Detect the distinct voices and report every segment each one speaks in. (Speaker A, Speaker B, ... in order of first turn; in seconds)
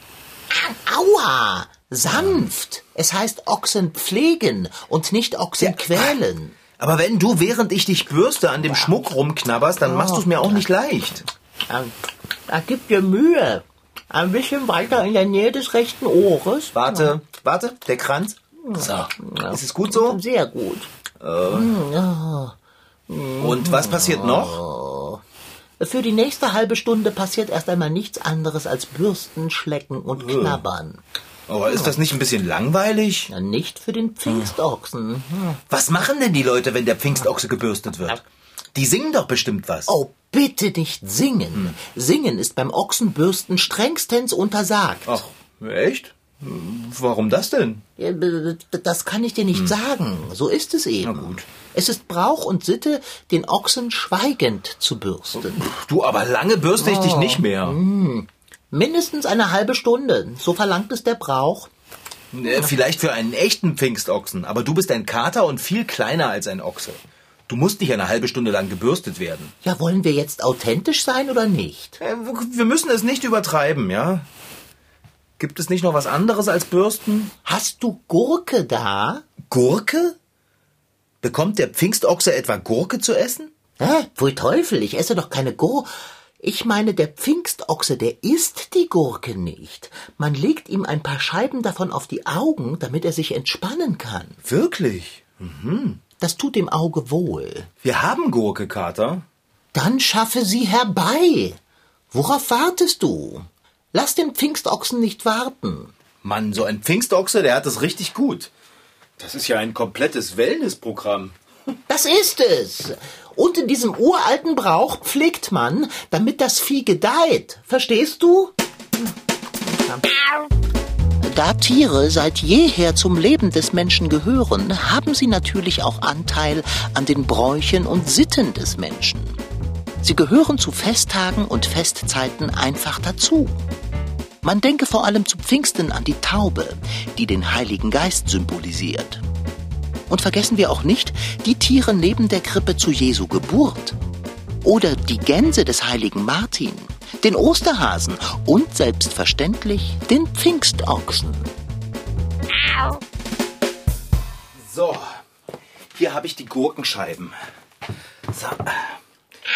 Speaker A: 0.5-6.6, 9.8-10.7, 11.7-11.9, 12.5-17.1, 18.6-20.9, 21.5-22.6, 23.1-25.2, 25.8-31.0, 33.3-35.6, 39.9-45.2, 48.0-55.7, 56.8-61.7, 69.6-72.0, 77.5-79.3, 83.8-85.9, 86.4-94.4, 96.2-97.7, 99.7-101.6, 102.1-105.9, 111.9-118.5, 119.7-120.0, 121.2-129.4, 130.0-133.6, 134.4-139.2, 140.1-144.0, 144.6-151.5
Speaker B: 5.6-6.2, 6.8-11.2, 16.7-20.2, 21.2-21.8, 23.4-24.6, 30.2-30.6, 31.5-33.3, 35.7-38.2, 38.7-39.9, 45.1-47.9, 51.0-51.5, 55.4-57.8, 62.3-69.5, 72.0-74.3, 75.4-77.3, 79.5-80.2, 81.2-83.5, 94.4-96.0, 97.8-99.2, 106.2-108.5, 109.2-111.4, 154.6-155.2, 155.9-157.3, 158.3-159.0